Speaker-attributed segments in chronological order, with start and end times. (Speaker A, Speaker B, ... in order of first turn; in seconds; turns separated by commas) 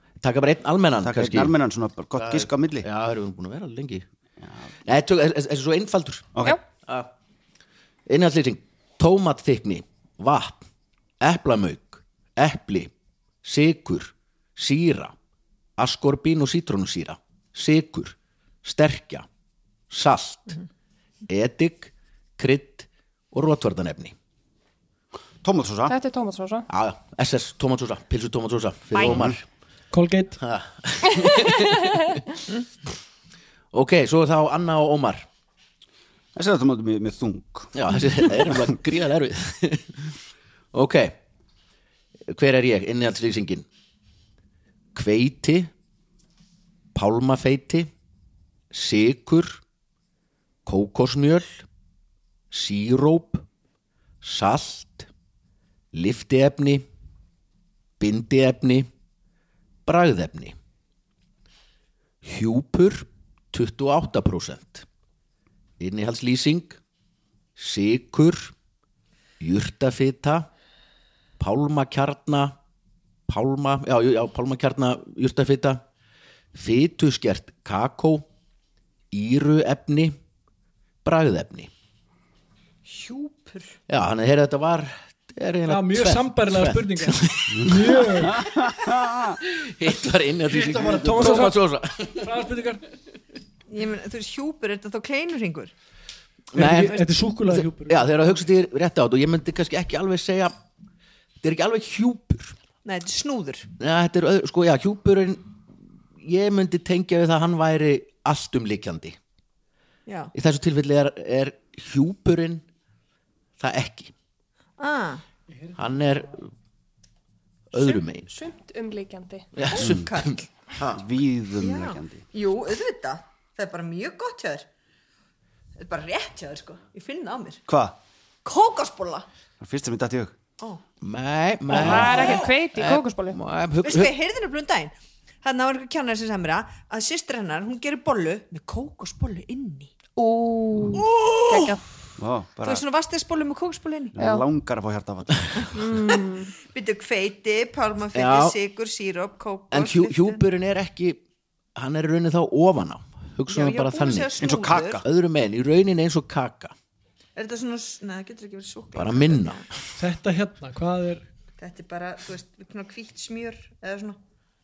Speaker A: 0.2-1.5, Speaker B: 1.0-2.9, Speaker A: 2.2-4.1, Speaker A: 4.8-7.1, Speaker A: 8.1-10.7, Speaker A: 11.2-12.9, Speaker A: 13.4-15.1, Speaker A: 15.8-19.3, Speaker A: 19.9-20.6, Speaker A: 21.3-24.1, Speaker B: 25.4-25.9, Speaker C: 25.9-26.7, Speaker A: 26.7-29.4, Speaker C: 28.9-29.2, Speaker B: 29.0-29.4, Speaker D: 29.9-30.4, Speaker A: 30.4-32.2, Speaker C: 31.1-32.1, Speaker A: 33.7-35.3, Speaker B: 36.4-37.8, Speaker A: 37.7-40.0, Speaker A: 40.7-41.2, Speaker A: 42.3-43.7, Speaker A: 45.0-45.7, Speaker A: 47.0-47.9, Speaker A: 48.7-49.6, Speaker A: 50.7-51.6, Speaker A: 52.5-53.5, Speaker A: 54.2-55.1, Speaker A: 55.9-56.9, Speaker A: 58.0-58.9, Speaker A: 59.9-60.6, Speaker A: 62.2-64.9, Speaker A: 65.8-66.8, Speaker A: 67.6-68.5, Speaker A: 69.4-70.5, Speaker A: 71.4-72.5, Speaker A: 73.3-75.8, Speaker A: 76.5-78.3, Speaker A: 79.1-80.2, Speaker A: 81.0-81.7, Speaker E: 82.9-83.8, Speaker A: 83.9-88.3, Speaker D: 85.7-88.5, Speaker B: 88.2-89.4, Speaker A: 89.4-92.4, Speaker D: 90.5-92.9, Speaker E: 93.7-95.7, Speaker A: 96.5-100.5, Speaker D: 96.5-98.3, Speaker A: 101.4-102.6, Speaker E: 102.8-103.7, Speaker A: 103.8-105.5, Speaker A: 106.2-109.2, Speaker E: 110.1-110.3, Speaker A: 110.3-112.7, Speaker A: 113.6-114.1, Speaker E: 114.8-115.2, Speaker D: 115.5-116.1, Speaker A: 115.8-116.5, Speaker A: 117.7-118.3, Speaker C: 117.8-119.5, Speaker A: 119.5-121.0, Speaker E: 119.7-120.5, Speaker B: 119.8-120.1, Speaker B: 120.8-122.3, Speaker E: 121.6-124.7, Speaker E: 125.8-127.6, Speaker B: 127.7-128.0, Speaker E: 128.4-129.3, Speaker B: 129.6-130.4, Speaker A: 131.0-134.1, Speaker C: 131.7-133.4, Speaker B: 131.8-132.3, Speaker E: 131.8-132.5, Speaker E: 133.8-139.9, Speaker C: 140.2-141.8, Speaker A: 141.1-141.3, Speaker B: 142.2-142.8, Speaker E: 142.6-144.2, Speaker B: 144.2-145.8, Speaker C: 144.2-144.5, Speaker E: 145.7-150.4, Speaker C: 145.7-146.5, Speaker A: 148.1-148.6, Speaker A: 149.7-151.2, Speaker A: 151.8-154.3, Speaker E: 153.5-155.0, Speaker B: 154.4-155.0, Speaker A: 155.0-156.7, Speaker E: 157.4-159.6, Speaker A: 158.9-159.8, Speaker D: 160.0-161.2, Speaker E: 161.6-164.2